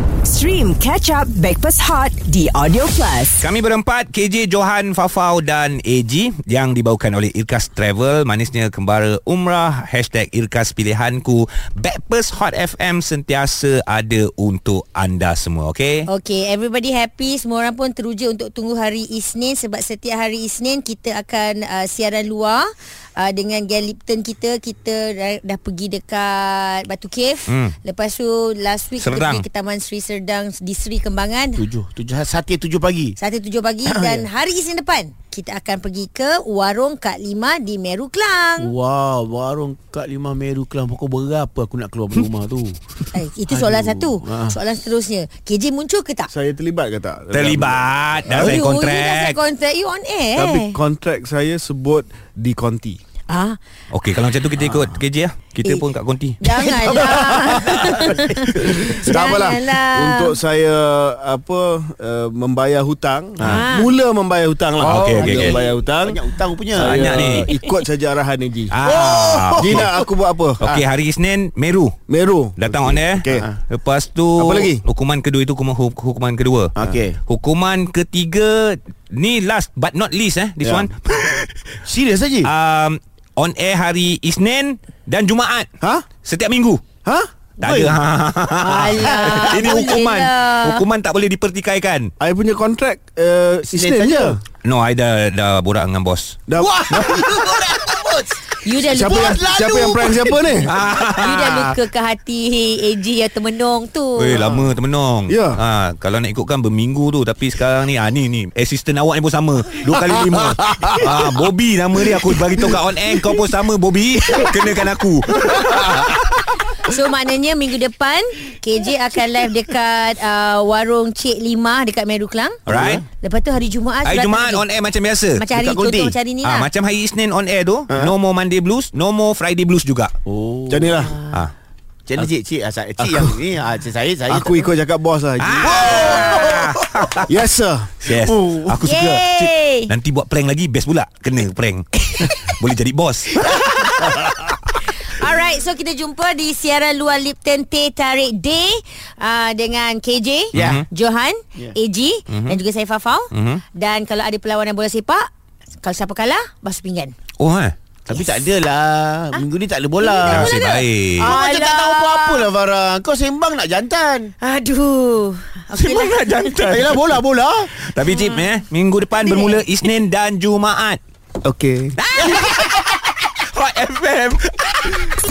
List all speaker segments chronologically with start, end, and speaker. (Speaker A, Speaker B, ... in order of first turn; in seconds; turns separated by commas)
Speaker A: 0.2-3.5, Speaker B: 3.4-16.1, Speaker C: 16.1-31.6, Speaker B: 27.5-27.7, Speaker B: 29.0-29.4, Speaker D: 31.6-33.1, Speaker C: 33.2-38.7, Speaker D: 33.9-34.2, Speaker D: 38.6-42.8, Speaker C: 43.1-46.3, Speaker D: 43.5-44.5, Speaker E: 46.3-48.6, Speaker B: 47.3-49.4, Speaker C: 48.3-50.8, Speaker E: 50.4-53.0, Speaker C: 53.3-53.6, Speaker B: 53.9-56.4, Speaker C: 56.4-60.4, Speaker E: 56.8-70.6, Speaker C: 63.4-63.9, Speaker B: 64.8-65.6, Speaker D: 65.1-67.4, Speaker B: 66.8-67.6, Speaker B: 68.7-69.9, Speaker D: 68.8-70.1, Speaker B: 70.6-72.0, Speaker E: 72.1-73.5, Speaker B: 72.6-81.8, Speaker E: 74.4-74.8, Speaker D: 76.8-77.2, Speaker E: 80.6-80.9, Speaker D: 81.8-82.5, Speaker B: 82.4-85.7, Speaker E: 85.8-86.0, Speaker B: 86.2-86.8, Speaker B: 87.6-92.1, Speaker D: 87.6-88.0, Speaker C: 88.6-90.8, Speaker D: 89.0-89.5, Speaker E: 92.2-94.4, Speaker D: 93.7-94.4, Speaker B: 94.6-96.4, Speaker E: 96.5-97.2, Speaker D: 96.5-100.7, Speaker C: 98.6-99.4, Speaker E: 98.9-100.8, Speaker B: 100.7-101.8, Speaker C: 101.1-104.5, Speaker B: 104.2-116.2, Speaker D: 104.3-104.7, Speaker E: 105.3-105.6, Speaker E: 109.9-111.1, Speaker E: 112.1-112.6, Speaker C: 116.8-122.6, Speaker B: 122.7-123.0, Speaker D: 122.7-123.0, Speaker C: 123.2-124.7, Speaker B: 124.0-125.5, Speaker C: 125.3-126.7, Speaker D: 125.5-126.1, Speaker B: 126.4-130.1, Speaker D: 130.2-131.2, Speaker E: 130.7-131.1, Speaker D: 132.1-134.7, Speaker E: 133.0-133.4, Speaker E: 134.3-136.4, Speaker B: 135.4-137.3, Speaker D: 135.6-137.2, Speaker E: 137.2-138.0, Speaker B: 138.0-144.2, Speaker D: 138.2-138.7, Speaker C: 138.8-139.9, Speaker C: 145.0-155.3, Speaker D: 150.5-150.8, Speaker B: 150.5-150.9, Speaker B: 152.3-152.6, Speaker B: 153.3-153.6, Speaker C: 155.8-157.1, Speaker B: 157.4-157.8, Speaker D: 158.1-160.6, Speaker C: 160.0-162.5, Speaker B: 160.2-161.4, Speaker D: 161.2-164.3, Speaker C: 164.4-166.4, Speaker B: 165.8-167.2, Speaker D: 166.7-167.7, Speaker B: 167.8-171.0, Speaker C: 168.1-168.5, Speaker C: 169.2-169.6, Speaker D: 171.5-171.9, Speaker B: 172.0-175.1